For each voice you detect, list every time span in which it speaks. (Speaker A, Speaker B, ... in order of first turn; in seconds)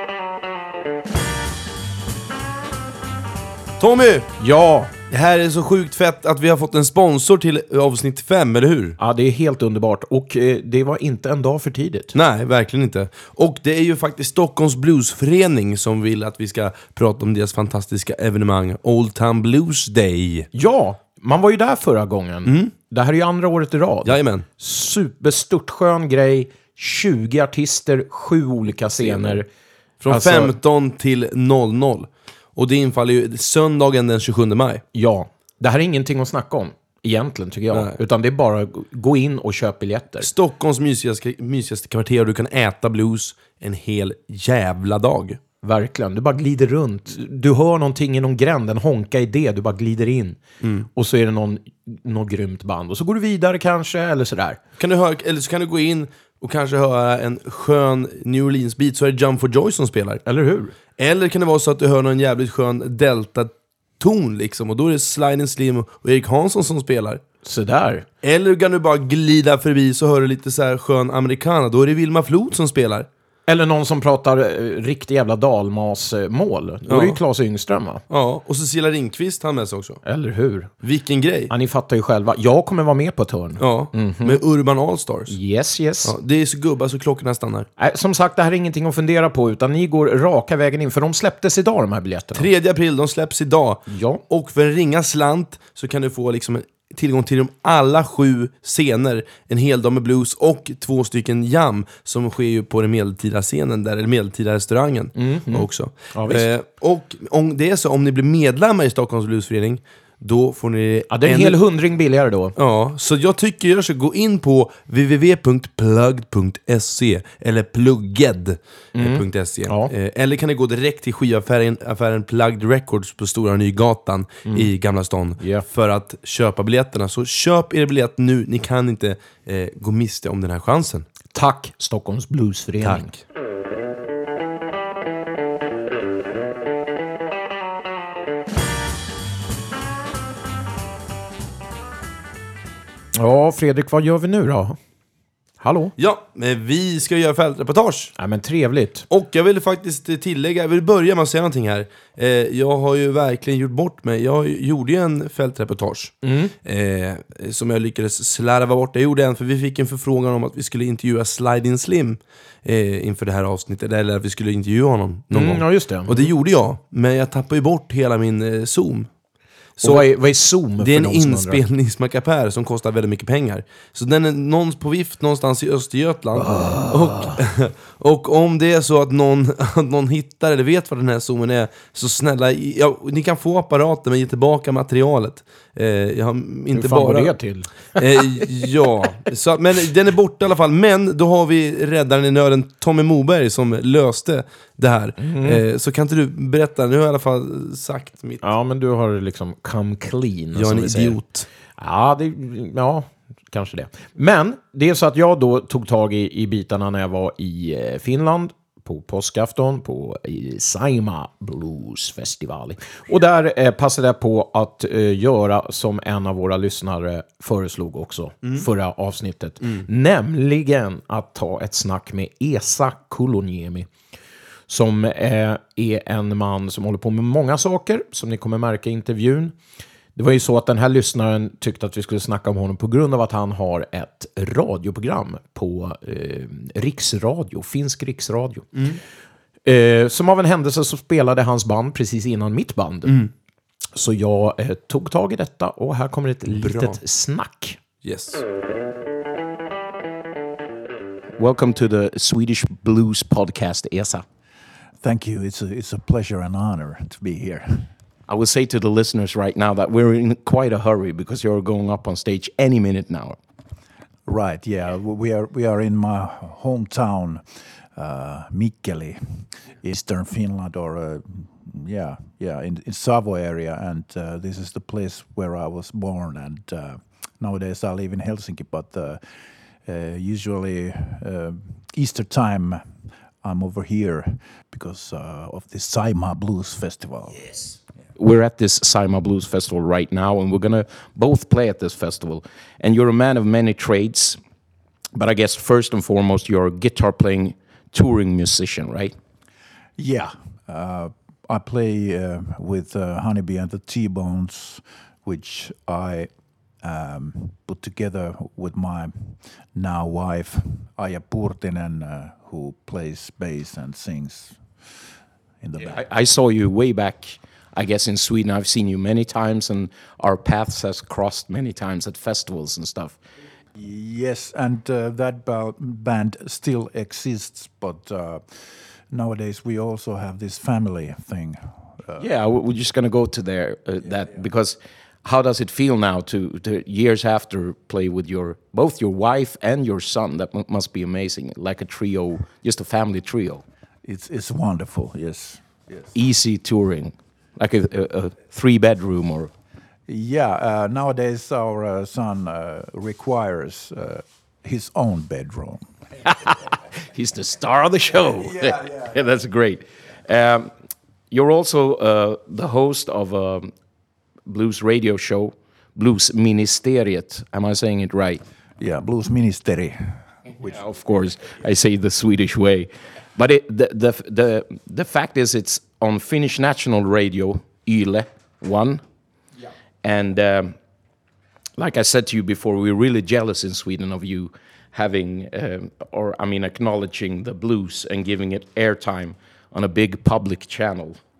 Speaker A: 3.8-4.3, 5.1-8.9, 12.1-20.5, 22.4-22.7, 24.0-24.4, 29.0-29.4, 30.0-34.8, 40.2-45.4, 50.6-50.9, 54.8-60.2, 61.0-67.2, 68.2-73.1, 76.9-77.2, 78.1-80.0, 80.8-81.5, 83.6-85.3, 86.0-87.7, 92.3-111.6, 112.5-131.1, 132.8-133.2, 146.0-148.1, 149.1-169.1, 169.8-170.0, 170.8-187.3, 188.0-198.4, 200.5-201.4, 238.7-239.0, 246.6-247.0, 248.0-248.4
Speaker B: 4.4-4.9, 9.0-12.1, 20.5-29.5, 30.1-30.5, 34.9-40.3, 45.6-50.4, 50.9-54.6, 60.2-60.7, 67.4-68.0, 73.5-78.0, 80.0-80.7, 81.5-84.4, 85.3-86.1, 87.8-92.5, 93.9-94.2, 105.1-106.5, 111.1-112.5, 118.9-119.9, 125.4-125.6, 131.3-133.1, 143.1-144.8, 145.6-145.9, 148.2-149.1, 156.2-156.5, 165.3-166.3, 169.8-171.6, 176.3-177.4, 186.7-188.5, 195.2-195.6, 198.4-201.2, 201.8-223.9, 224.7-229.6, 230.2-238.7, 239.6-243.2, 243.9-247.8, 251.4-254.2, 258.3-263.4, 288.1-294.4, 295.1-299.1, 315.8-323.2, 332.2-343.6, 346.1-349.5, 356.2-360.7, 361.3-363.7, 364.5-368.4, 370.6-379.0, 380.0-380.8, 381.8-391.2
Speaker C: 255.0-257.9, 264.2-287.6, 300.0-315.0, 315.6-316.0, 323.8-332.2, 344.0-346.1, 350.1-356.0, 368.8-370.7